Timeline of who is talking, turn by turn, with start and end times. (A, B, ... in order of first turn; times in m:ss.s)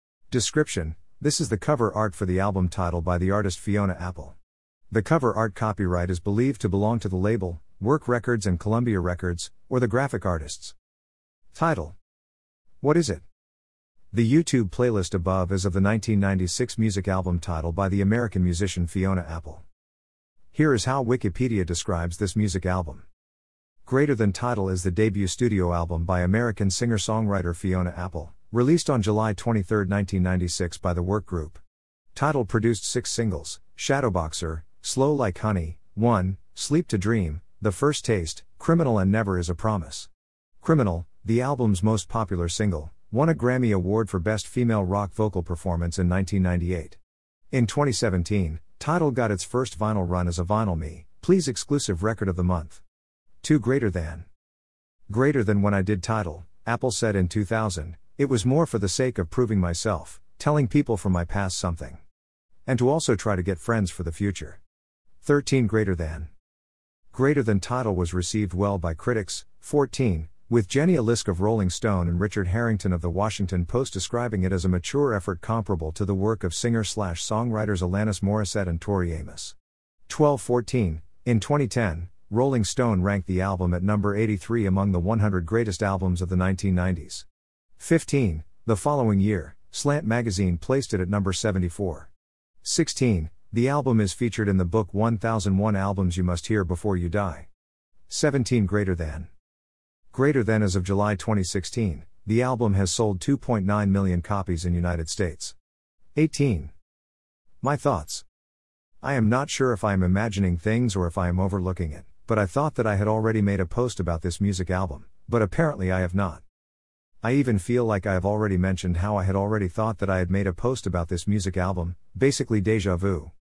0:00.3-0:04.4 A
0:04.9-0:10.8 A
0:11.5-0:12.0 A
0:12.8-0:13.2 A
0:14.1-0:19.6 A
0:20.5-0:23.0 A
0:23.9-0:31.6 A
0:32.2-0:40.1 A
0:40.6-0:47.0 A
0:47.5-0:52.8 A
0:53.4-0:54.3 A
0:55.1-1:02.0 A
1:02.7-1:04.6 A
1:05.2-1:06.3 A
1:07.1-1:19.6 A
1:20.1-1:27.3 A
1:27.8-1:32.1 A
1:32.6-1:37.5 A
1:38.1-1:39.3 A
1:40.1-1:45.6 A
1:46.2-1:46.7 A
1:47.6-1:48.2 A
1:49.0-1:56.4 A
1:57.2-2:03.3 A